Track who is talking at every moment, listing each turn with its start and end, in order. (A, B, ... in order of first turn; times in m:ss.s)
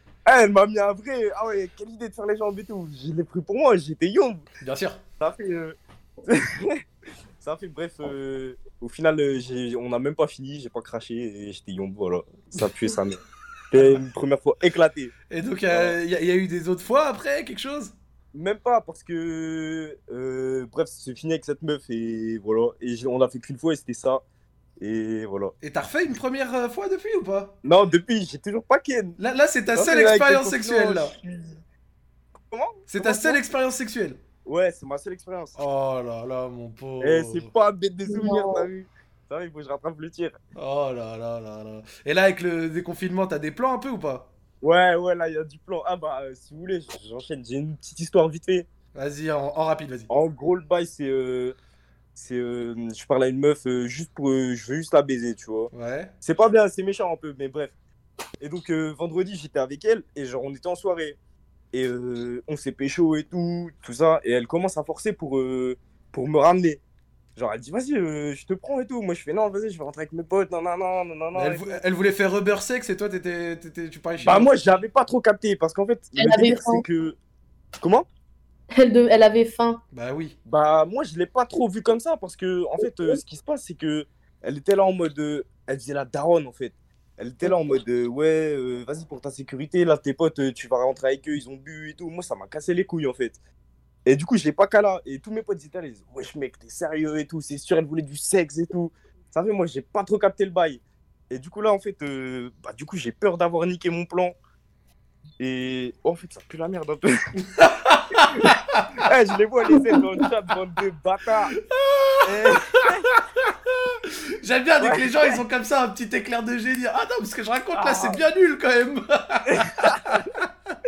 0:00.2-0:04.4 A
0:04.6-0:05.0 B
0:05.2-0:05.8 A
0:06.3-0:06.8 A
0:07.4-0:13.2 A
0:13.7-0:15.1 A
0:15.3-0:17.9 B
0:15.7-0:16.0 A
0:18.3-0:24.2 A
0:24.8-0:25.5 A
0:25.6-0:27.5 B
0:27.6-0:29.2 A
0:29.2-0:31.1 B
0:29.7-0:31.6 A
0:32.5-0:33.4 A
0:32.9-0:34.2 B
0:34.4-0:35.6 A
0:35.6-0:37.5 B
0:37.0-0:40.4 A
0:38.1-0:38.6 C
0:40.6-0:44.3 B
0:44.6-0:48.7 A
0:48.9-0:50.1 B
0:50.1-0:51.6 A
0:52.1-0:55.7 A
0:55.7-0:56.1 B
0:56.2-0:57.7 A
0:58.4-1:01.2 A
1:01.7-1:06.8 A
1:07.4-1:11.8 A
1:11.3-1:14.5 B
1:14.2-1:17.2 A
1:16.1-1:16.8 C
1:17.8-1:18.1 A
1:18.7-1:19.8 C
1:19.9-1:20.4 B
1:20.4-1:33.4 A
1:34.0-1:44.4 A
1:45.4-1:47.2 A
1:47.6-1:48.9 B
1:48.1-1:51.5 A
1:51.7-2:00.2 B
1:52.2-1:53.1 A
1:54.8-1:55.4 A
1:57.7-1:58.2 A
1:59.5-2:00.2 A